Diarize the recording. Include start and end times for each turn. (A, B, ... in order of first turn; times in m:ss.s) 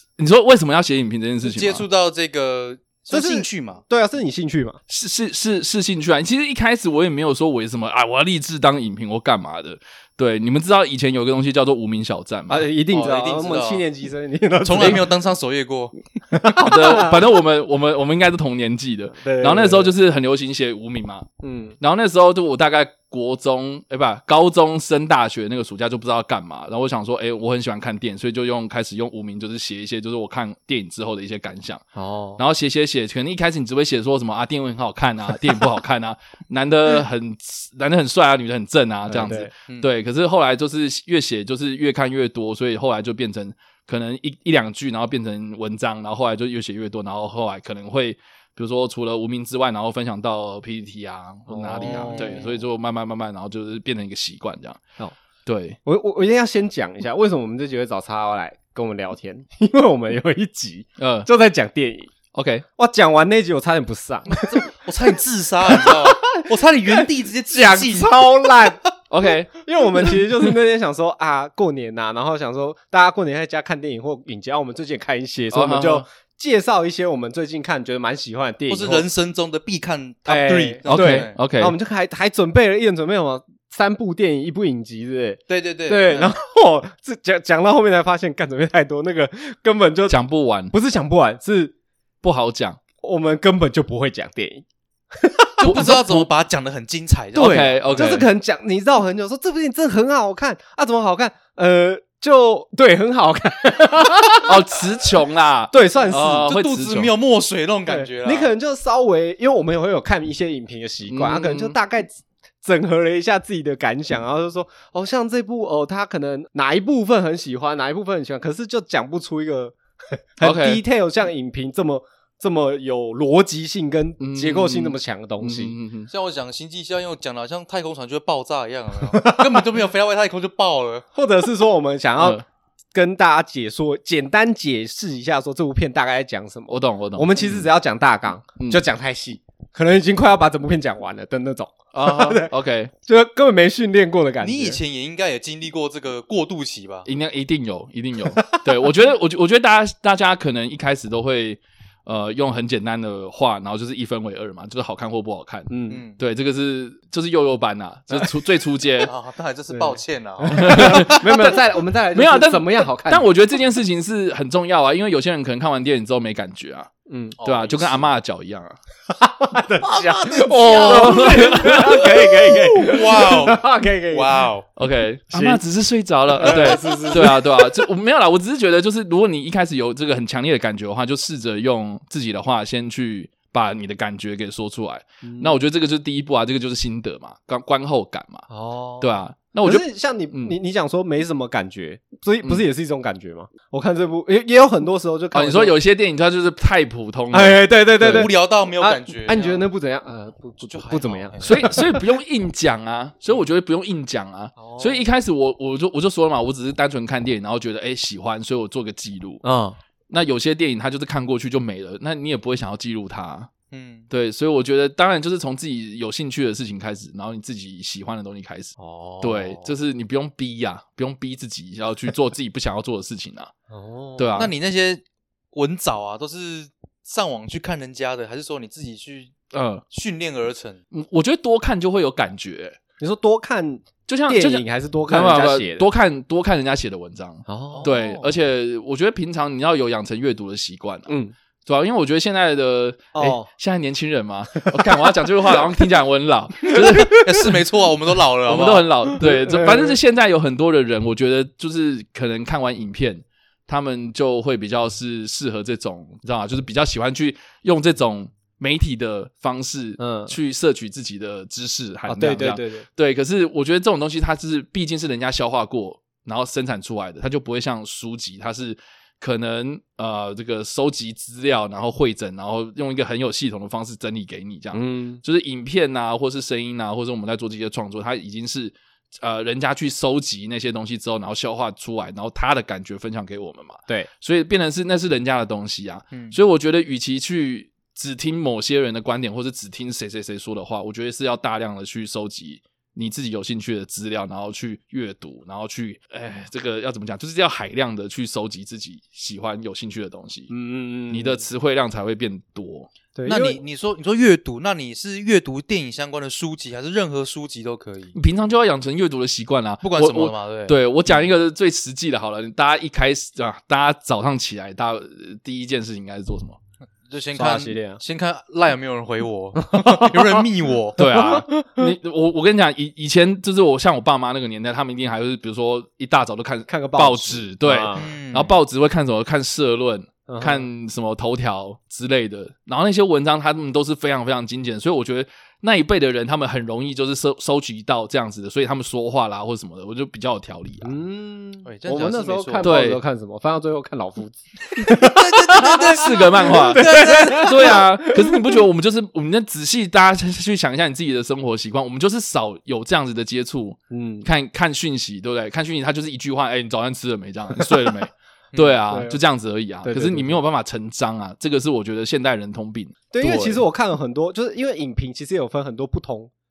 0:00.2-0:01.8 A
0:01.4-0:03.8 B
0:03.1-0:04.8 C
0:04.9-0:12.6 A
0:12.5-0:15.1 C
0:12.9-0:13.8 B
0:14.6-0:15.9 B
0:14.8-0:15.0 A
0:16.3-0:17.2 C
0:16.6-0:21.3 A
0:19.2-0:19.9 C
0:21.4-0:21.8 C
0:21.8-0:31.8 A
0:31.9-0:32.4 C
0:32.4-0:54.8 A
0:39.1-0:39.5 C
0:51.5-0:52.4 C
0:51.8-0:52.5 B
0:55.4-0:55.8 A
0:55.8-1:02.1 C
1:01.0-1:01.3 A
1:02.3-1:02.6 A
1:02.8-1:04.7 C
1:04.3-1:08.5 B
1:05.7-1:08.9 C
1:09.1-1:09.5 A
1:09.5-1:19.0 C
1:15.5-1:16.0 A
1:18.7-1:21.4 B
1:20.2-1:30.2 C
1:20.9-1:21.7 A
1:25.5-1:26.3 B
1:30.1-1:30.7 A
1:30.7-1:31.7 C
1:32.2-1:32.8 A
1:33.0-1:36.0 C
1:35.6-1:37.9 B
1:35.6-1:36.3 A
1:37.3-1:38.3 A
1:37.3-1:44.6 C
1:44.4-1:47.1 A
1:45.7-1:46.5 C
1:46.4-1:48.5 B
1:47.8-1:59.7 C
1:51.1-1:51.8 A
2:00.4-2:05.8 C
2:00.4-2:00.8 A
2:04.2-2:06.1 A
2:06.1-2:11.0 B
2:09.1-2:09.6 C
2:11.1-2:12.4 C
2:12.2-2:12.4 A
2:12.9-2:22.5 C
2:16.7-2:17.7 A
2:21.9-2:22.9 A
2:23.0-2:24.8 C
2:24.4-2:27.1 B
2:27.0-2:39.1 A
2:28.3-2:28.6 C
2:35.7-2:36.0 C
2:35.9-2:36.2 B
2:39.0-2:41.2 B
2:39.7-2:43.3 C
2:40.5-2:41.5 A
2:42.1-2:46.9 A
2:47.1-2:47.4 C
2:47.4-2:48.1 B
2:47.4-2:48.8 A
2:49.1-2:54.4 C
2:49.8-2:51.5 B
2:50.6-2:52.8 A
2:52.5-2:54.7 B
2:54.8-3:08.4 A
2:55.3-2:55.6 C
2:56.3-2:57.8 C
3:05.2-3:05.6 C
3:08.5-3:15.8 C
3:09.0-3:10.6 A
3:15.3-3:18.3 A
3:17.3-3:22.0 C
3:18.0-3:19.7 B
3:20.6-3:21.8 B
3:21.4-3:29.4 A
3:24.6-3:25.0 C
3:29.4-3:29.8 C
3:30.1-3:33.5 A
3:33.7-3:34.1 B
3:34.1-3:43.5 A
3:38.8-3:39.6 C
3:43.7-3:44.4 C
3:44.2-3:44.5 A
3:44.4-3:45.0 B
3:45.5-3:49.3 B
3:49.5-3:49.8 A
3:49.9-3:50.8 B
3:50.9-3:52.8 A
3:53.0-3:55.8 C
3:54.1-4:01.1 A
3:57.5-3:57.9 C
3:57.7-3:58.3 B
4:01.1-4:01.3 C
4:01.6-4:07.6 A
4:03.1-4:03.5 C
4:04.6-4:05.1 C
4:06.6-4:07.5 C
4:06.8-4:08.9 B
4:08.4-5:00.5 A
4:09.2-4:10.0 C
4:20.0-4:20.3 C
4:22.0-4:22.8 C
4:34.7-4:35.2 C
4:46.1-4:46.4 B
5:00.5-5:01.4 C
5:01.1-5:02.9 A
5:03.1-5:03.6 C
5:03.2-5:08.1 B
5:08.1-5:16.6 A
5:09.8-5:10.8 B
5:17.1-5:21.0 B
5:17.4-5:18.0 C
5:19.6-5:20.4 C
5:21.0-5:40.9 A
5:21.0-5:21.8 C
5:26.7-5:28.1 C
5:28.0-5:28.6 B
5:30.3-5:30.7 C
5:40.8-5:48.6 C
5:41.6-5:42.7 B
5:42.6-5:43.0 A
5:44.8-5:47.8 B
5:45.6-6:03.6 A
5:53.9-5:54.3 C
5:58.5-5:58.8 B
5:58.9-5:59.2 C
5:59.8-6:00.4 C
6:03.1-6:06.3 C